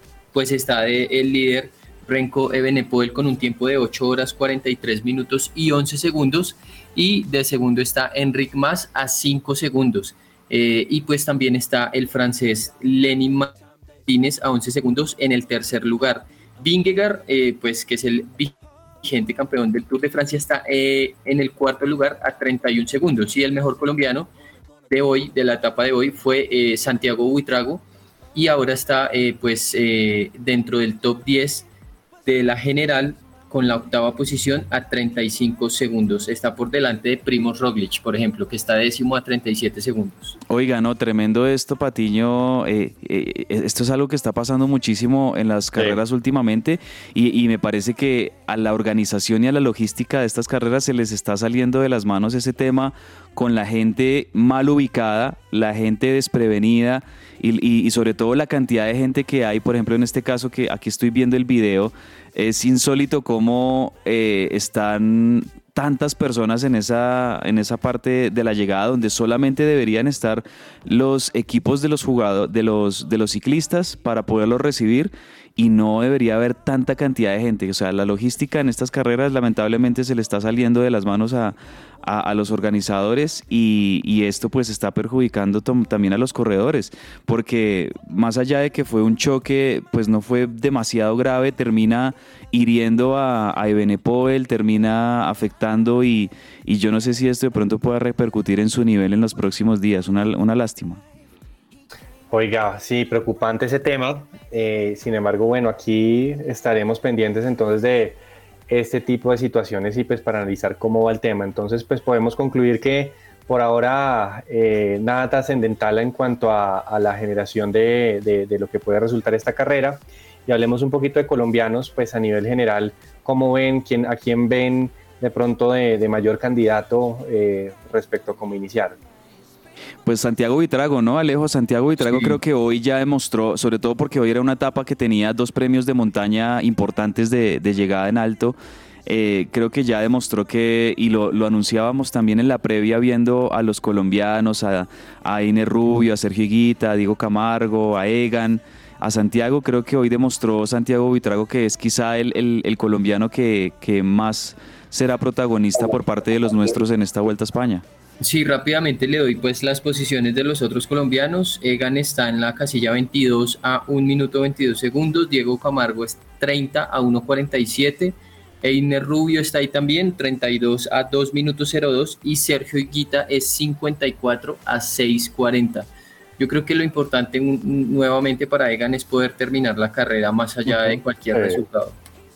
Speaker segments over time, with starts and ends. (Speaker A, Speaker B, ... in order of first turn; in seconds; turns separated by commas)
Speaker A: 0.3-13.5, Speaker A: 14.1-24.3, Speaker A: 24.9-27.8, Speaker A: 28.3-31.7, Speaker A: 32.2-40.4, Speaker B: 40.5-101.0, Speaker C: 102.3-129.0, Speaker B: 130.1-138.6, Speaker A: 132.0-132.4, Speaker B: 139.1-157.8, Speaker A: 158.2-181.9, Speaker C: 180.7-181.6